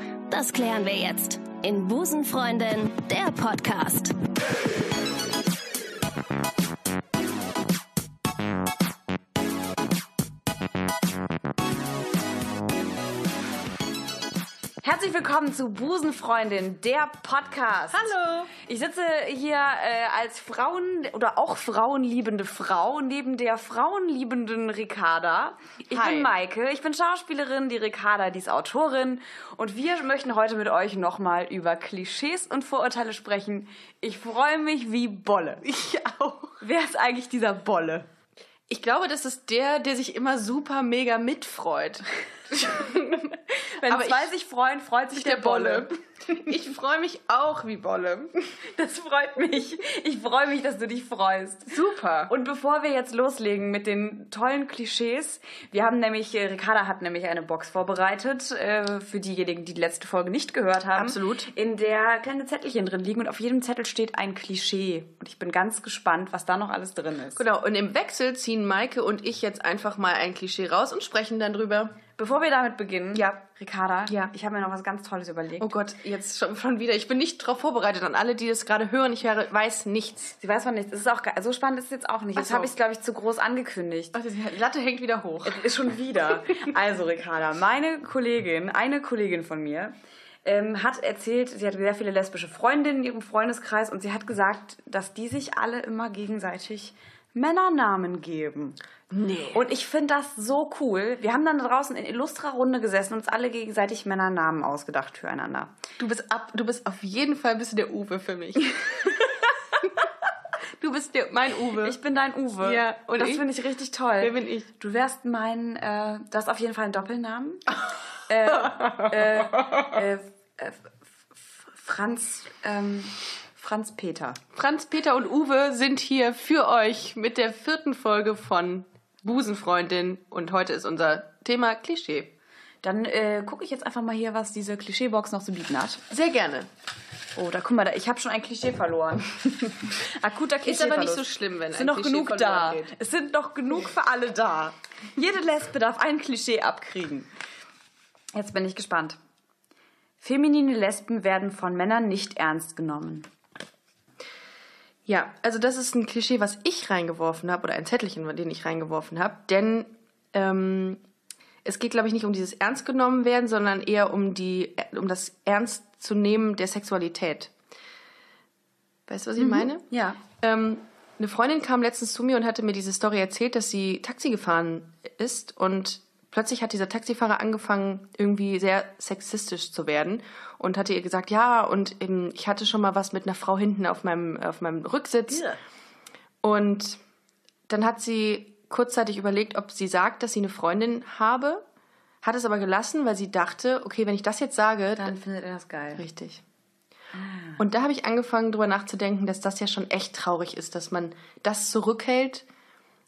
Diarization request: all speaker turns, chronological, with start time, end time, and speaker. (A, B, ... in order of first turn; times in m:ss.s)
0:00.3-0:04.2 A
0:14.8-0:35.6 B
0:17.9-0:18.5 C
0:25.9-0:26.3 C
0:35.6-0:36.6 C
0:36.6-0:38.1 B
0:38.7-0:43.3 C
0:43.5-0:45.9 B
0:43.8-0:44.3 C
0:45.1-0:48.4 C
0:48.7-0:51.8 B
0:51.7-0:52.3 C
0:52.3-1:07.4 B
1:01.0-1:01.5 C
1:07.4-1:12.0 C
1:12.2-1:15.7 B
1:14.1-1:14.3 C
1:15.6-1:20.4 C
1:20.4-1:24.2 B
1:22.4-1:22.7 C
1:24.1-1:25.7 C
1:25.4-1:29.9 B
1:30.4-1:38.8 B
1:39.1-1:39.6 C
1:39.5-1:45.7 B
1:46.0-1:49.8 C
1:49.1-1:49.4 B
1:50.8-1:52.0 C
1:51.8-1:57.8 B
1:52.6-1:53.5 C
1:54.2-1:54.7 C
1:58.3-2:04.4 B
1:58.5-1:59.8 C
2:04.6-2:12.3 C
2:12.8-2:16.0 B
2:16.1-2:16.7 C
2:17.4-2:27.3 B
2:20.6-2:23.0 C
2:28.3-2:29.2 B
2:30.2-2:33.3 B
2:35.1-2:41.0 C
2:41.6-2:47.5 C
2:49.1-2:49.8 C
2:49.4-2:50.2 B
2:50.4-3:05.5 C
3:06.4-3:07.0 C
3:07.7-3:11.6 C
3:12.2-3:15.2 C
3:15.0-3:16.0 B
3:16.0-3:16.4 C
3:17.1-3:17.6 B
3:17.6-3:22.4 C